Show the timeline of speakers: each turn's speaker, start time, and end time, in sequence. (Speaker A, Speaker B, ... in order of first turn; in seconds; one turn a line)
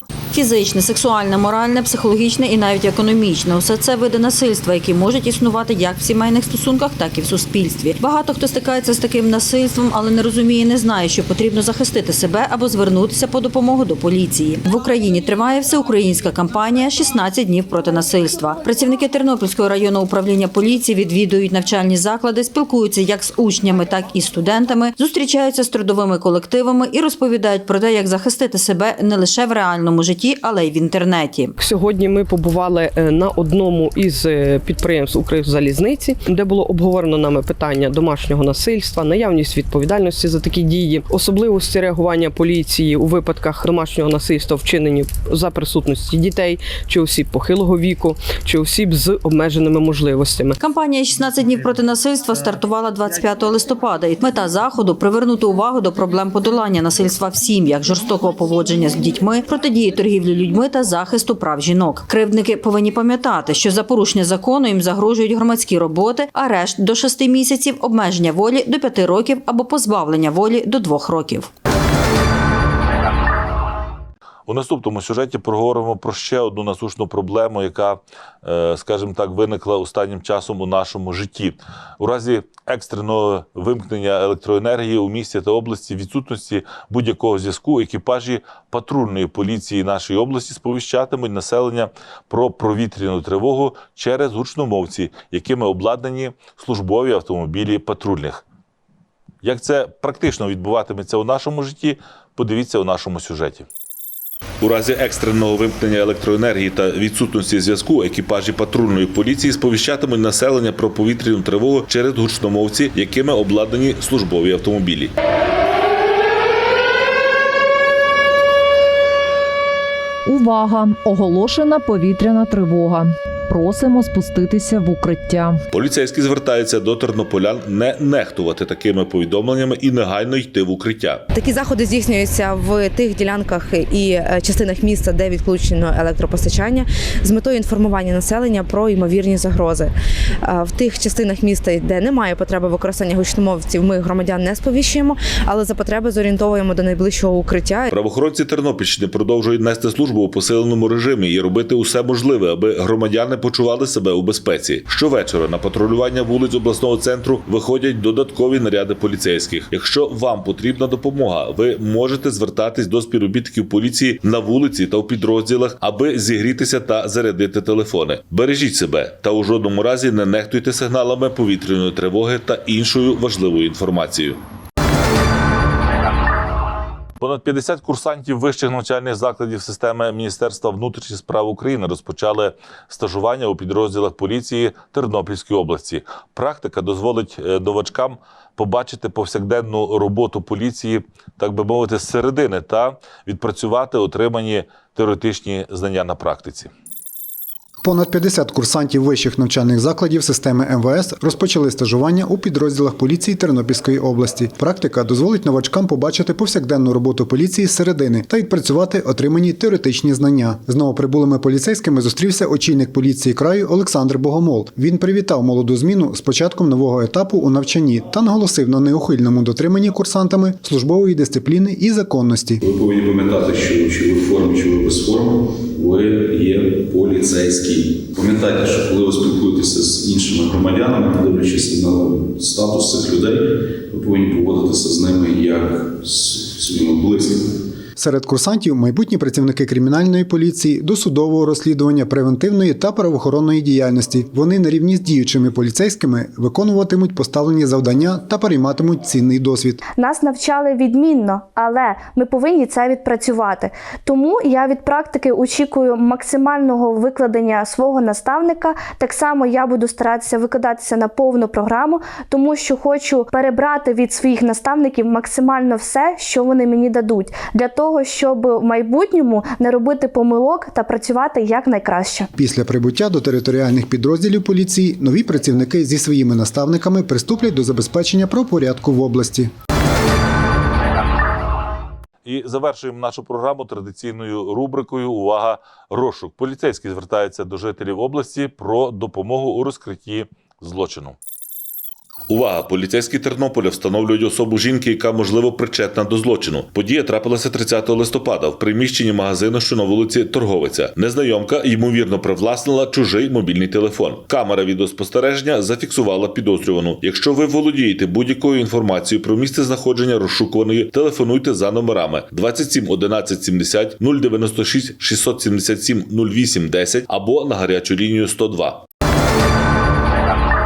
Speaker A: 0.3-31.5
Speaker B: 31.6-50.6
Speaker A: 50.6-71.5
Speaker C: 74.5-98.4
Speaker C: 99.4-103.7
Speaker C: 104.6-115.1
Speaker D: 120.3-125.6
Speaker C: 125.7-131.2
Speaker E: 131.3-147.9
Speaker C: 147.9-174.4
Speaker C: 177.2-196.7
Speaker F: 197.8-222.6
Speaker G: 222.6-237.5
Speaker F: 238.0-249.8
Speaker H: 250.0-272.3
Speaker F: 272.4-279.5
Speaker C: 282.2-291.2
Speaker C: 292.3-318.9